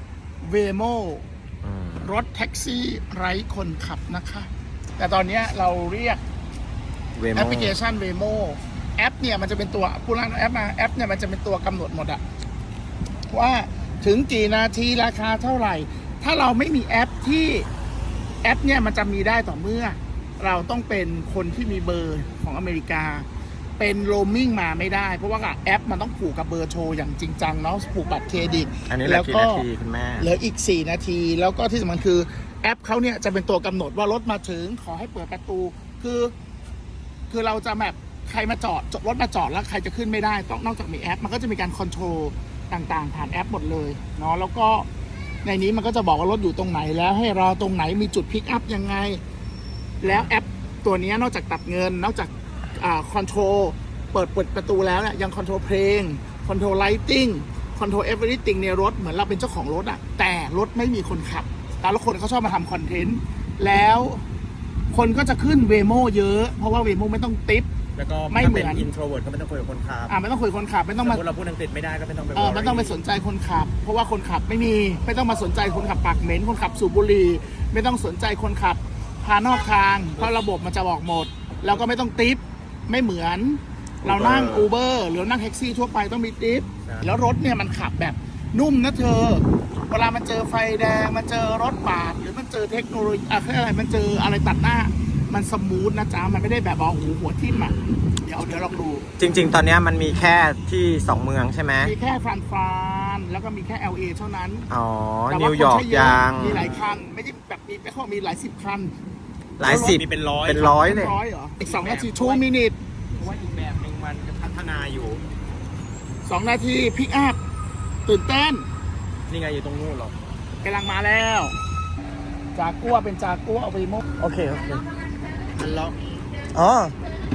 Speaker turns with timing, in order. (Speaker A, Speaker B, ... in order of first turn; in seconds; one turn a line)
Speaker A: 0.4-1.2
Speaker B: 1.6-2.1
Speaker A: 2.0-6.2
Speaker B: 7.2-7.8
Speaker A: 7.3-12.2
Speaker A: 13.3-17.7
Speaker A: 18.4-23.3
Speaker A: 23.8-29.7
Speaker B: 28.9-30.3
Speaker A: 30.2-36.3
Speaker A: 37.3-44.9
Speaker A: 45.4-49.2
Speaker A: 50.0-64.2
Speaker A: 64.9-67.7
Speaker C: 68.0-70.1
Speaker A: 68.3-68.9
Speaker A: 70.1-71.2
Speaker C: 71.0-73.0
Speaker A: 72.3-99.1
Speaker B: 84.0-84.7
Speaker B: 99.2-101.9
Speaker A: 101.8-104.7
Speaker B: 104.7-106.7
Speaker A: 105.3-108.9
Speaker B: 109.6-111.2
Speaker A: 109.6-110.0
Speaker C: 109.7-110.8
Speaker A: 110.7-112.8
Speaker C: 111.6-112.5
Speaker C: 113.2-115.2
Speaker A: 116.3-117.4
Speaker A: 118.1-118.7
Speaker C: 119.3-120.2
Speaker A: 120.6-121.6
Speaker A: 122.5-124.0
Speaker B: 124.2-124.8
Speaker C: 125.6-126.0
Speaker B: 126.5-127.0